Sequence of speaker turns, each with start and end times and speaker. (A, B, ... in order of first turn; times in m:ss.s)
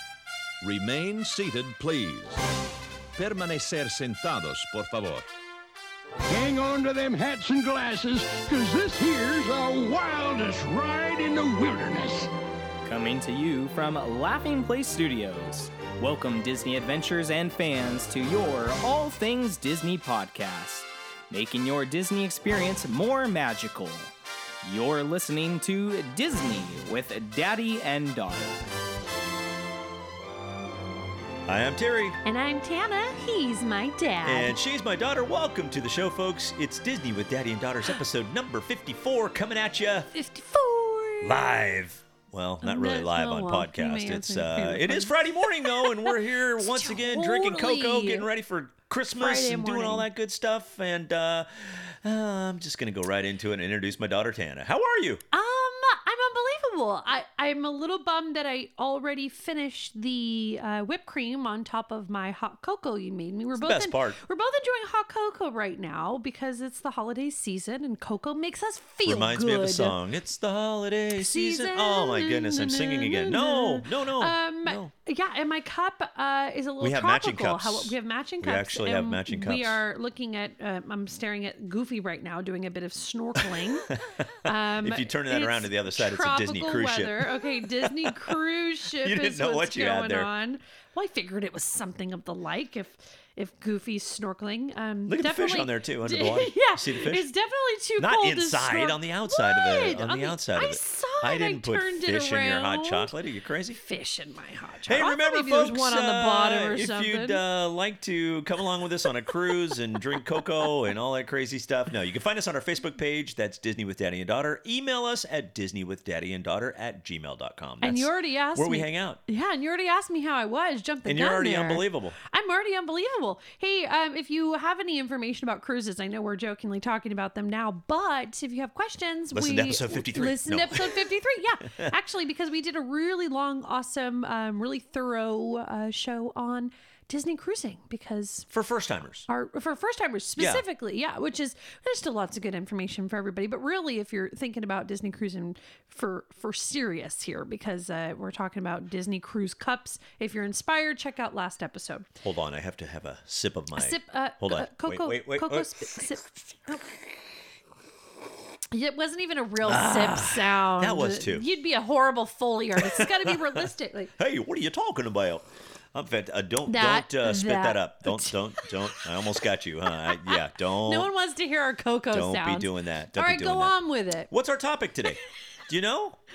0:00.6-0:02.4 A
0:03.1-0:05.2 A
0:06.3-0:12.3 B
0:12.8-0:28.6 C
0:31.4-0:32.2 D
0:32.2-0:34.6 E
0:34.2-0:40.1 D
0:40.1-0:41.4 E
0:41.2-0:55.2 D
0:42.6-0:48.3 E
0:49.1-0:50.0 E
0:55.3-1:10.0 E
1:03.5-1:04.2 D
1:09.0-1:14.9 D
1:11.1-1:23.9 E
1:16.8-1:19.8 D
1:23.4-1:28.4 D
1:24.4-1:43.1 E
1:29.0-1:30.3 D
1:35.1-1:37.3 D
1:38.0-1:43.8 D
1:43.8-1:47.4 E
1:44.9-1:59.2 D
1:57.8-2:18.5 E
2:01.0-2:02.2 D
2:09.3-2:11.0 D
2:18.5-2:19.2 D
2:19.3-2:32.0 E
2:20.4-2:20.6 D
2:32.2-2:35.8 D
2:33.8-2:36.8 E
2:38.7-2:44.1 E
2:39.6-2:41.4 D
2:42.8-2:51.1 D
2:46.7-2:49.0 E
2:50.1-2:54.3 E
2:52.1-2:53.8 D
2:54.3-2:56.2 D